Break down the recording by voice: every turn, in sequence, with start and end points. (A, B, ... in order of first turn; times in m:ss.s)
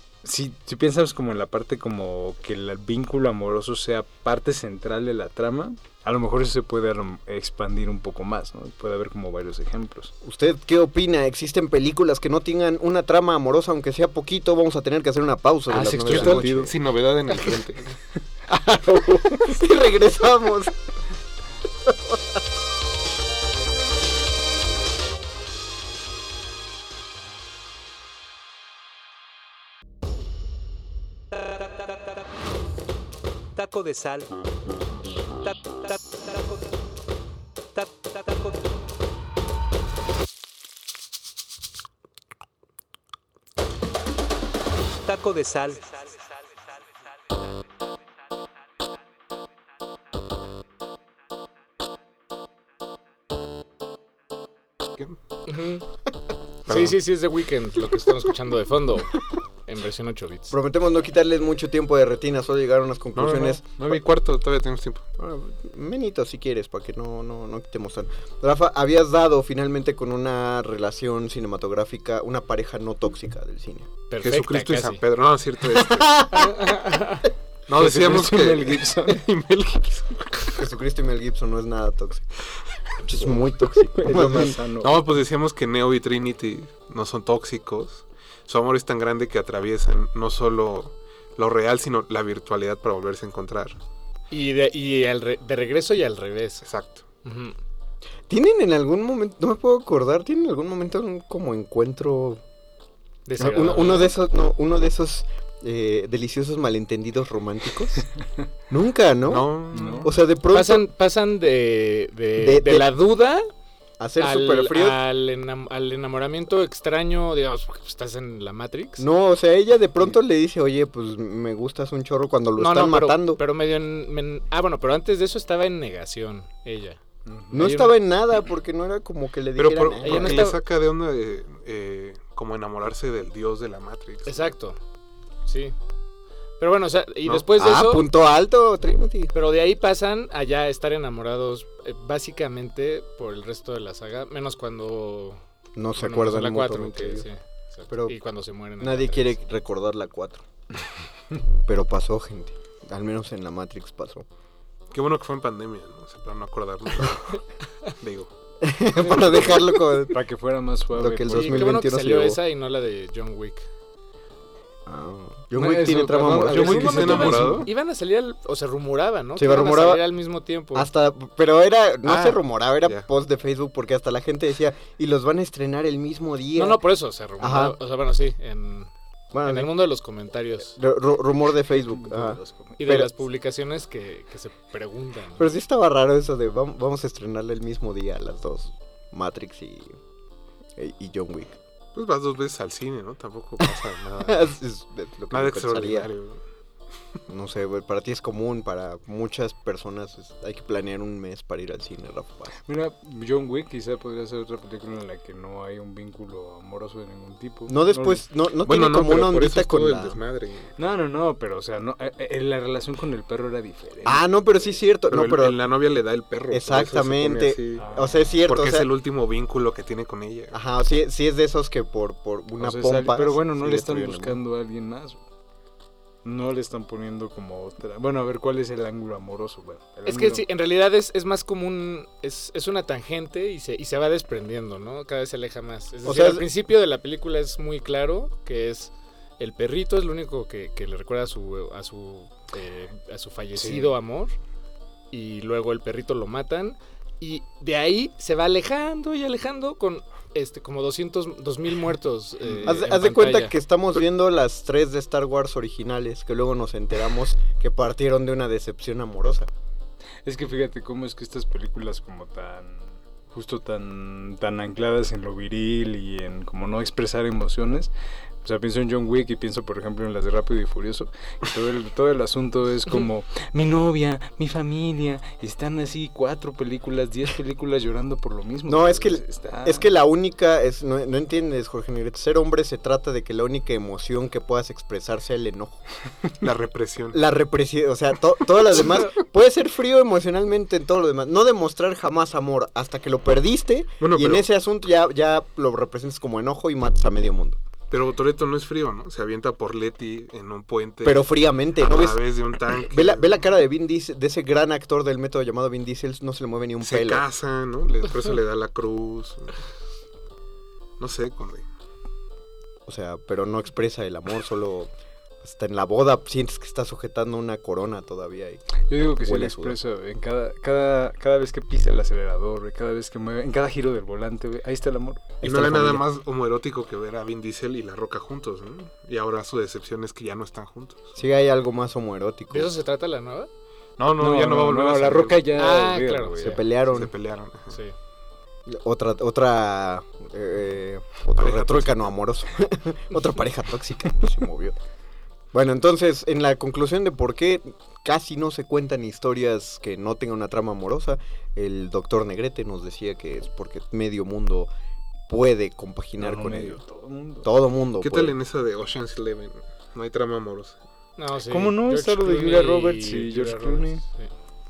0:00.2-0:10.1 A
0:10.2-0:16.7 B
0:15.7-0:16.7 A
0:16.0-0:17.9 C
0:18.5-0:20.7 B
0:18.9-0:19.4 A
0:21.9-0:22.2 B
0:31.3-0:32.0 D
0:33.5-0:34.3 D
0:35.4-0:36.6 D
0:37.7-0:38.6 D
0:45.0-0:46.3 D
0:55.5-0:55.8 E
0:56.7-0:57.0 C
0:56.7-0:59.1 E
0:59.6-1:00.5 E
1:00.5-1:04.0 B
1:03.1-1:05.0 C
1:05.2-1:13.9 B
1:14.1-1:15.0 E
1:14.2-1:16.5 C
1:15.7-1:16.8 B
1:16.6-1:17.3 E
1:17.7-1:20.6 C
1:17.7-1:19.2 A
1:20.6-1:22.2 B
1:23.0-1:24.6 B
1:23.3-1:25.0 A
1:24.1-1:33.8 C
1:34.3-1:36.6 E
1:36.6-1:37.0 C
1:37.2-1:37.5 E
1:38.3-1:42.4 B
1:43.3-1:44.1 E
1:43.4-1:48.1 B
1:48.7-1:50.8 B
1:49.2-1:50.1 C
1:49.7-1:50.1 A
1:50.5-1:53.5 E
1:52.4-1:52.9 B
1:54.0-1:55.0 B
1:54.2-1:59.1 E
1:59.0-2:03.4 B
2:02.6-2:07.0 E
2:07.3-2:07.5 A
2:07.5-2:08.0 E
2:07.5-2:10.5 B
2:09.6-2:14.5 C
2:10.0-2:10.6 E
2:14.2-2:14.8 E
2:15.4-2:15.7 E
2:16.6-2:18.1 E
2:17.5-2:19.3 B
2:19.3-2:25.4 E
2:25.8-2:27.3 B
2:26.0-2:29.4 E
2:27.9-2:28.2 B
2:28.8-2:30.4 B
2:31.6-2:34.2 B
2:34.9-2:38.3 C
2:38.6-2:40.2 B
2:39.0-2:39.7 C
2:40.0-2:41.8 A
2:40.9-2:42.4 B
2:41.3-2:43.7 E
2:44.8-2:47.5 B
2:45.5-2:47.7 A
2:46.5-2:47.7 C
2:46.5-2:50.9 E
2:49.4-2:50.0 B
2:50.7-2:56.8 B
2:52.0-2:53.0 C
2:56.6-2:58.9 E
2:57.4-2:57.8 B
2:59.3-2:59.7 B
2:59.4-3:00.8 E
3:00.8-3:03.1 B
3:01.7-3:02.8 A
3:02.8-3:05.6 E
3:05.4-3:09.9 B
3:10.8-3:11.5 B
3:11.9-3:14.5 C
3:14.2-3:16.1 B
3:15.3-3:16.4 C
3:17.3-3:22.6 B
3:22.6-3:28.2 A
3:27.7-3:30.2 B
3:28.6-3:30.7 C
3:30.8-3:34.3 A
3:34.0-3:35.6 B
3:35.1-3:37.9 C
3:36.5-3:38.9 B
3:37.8-3:38.4 A
3:38.4-3:40.6 C
3:40.5-3:44.4 B
3:42.6-3:45.2 A
3:46.2-3:50.4 A
3:50.0-4:04.3 E
3:56.0-3:56.4 B
4:03.6-4:03.9 A
4:05.1-4:13.5 E
4:12.6-4:19.5 B
4:20.2-4:27.9 A
4:28.4-4:39.9 A
4:38.7-4:45.8 B
4:46.4-4:47.2 C
4:47.1-4:57.6 B
4:54.0-4:54.5 C
4:57.9-5:03.4 C
5:01.0-5:02.2 B
5:02.8-5:07.2 B
5:06.8-5:09.6 C
5:11.0-5:11.6 C
5:12.8-5:14.9 B
5:15.4-5:19.8 B
5:18.9-5:25.4 A
5:25.4-5:26.0 B
5:25.4-5:31.2 C
5:31.2-5:32.7 B
5:32.5-5:33.5 E
5:34.0-5:35.4 C
5:34.2-5:36.6 A
5:35.5-5:36.6 E
5:36.4-5:37.1 B
5:36.8-5:37.8 C
5:38.7-5:44.8 B
5:41.4-5:42.1 C
5:45.5-5:54.7 B
5:55.3-5:56.8 B
5:56.2-5:57.5 A
5:57.4-5:58.3 B
5:58.0-6:00.8 C
6:01.2-6:04.3 E
6:01.5-6:04.0 A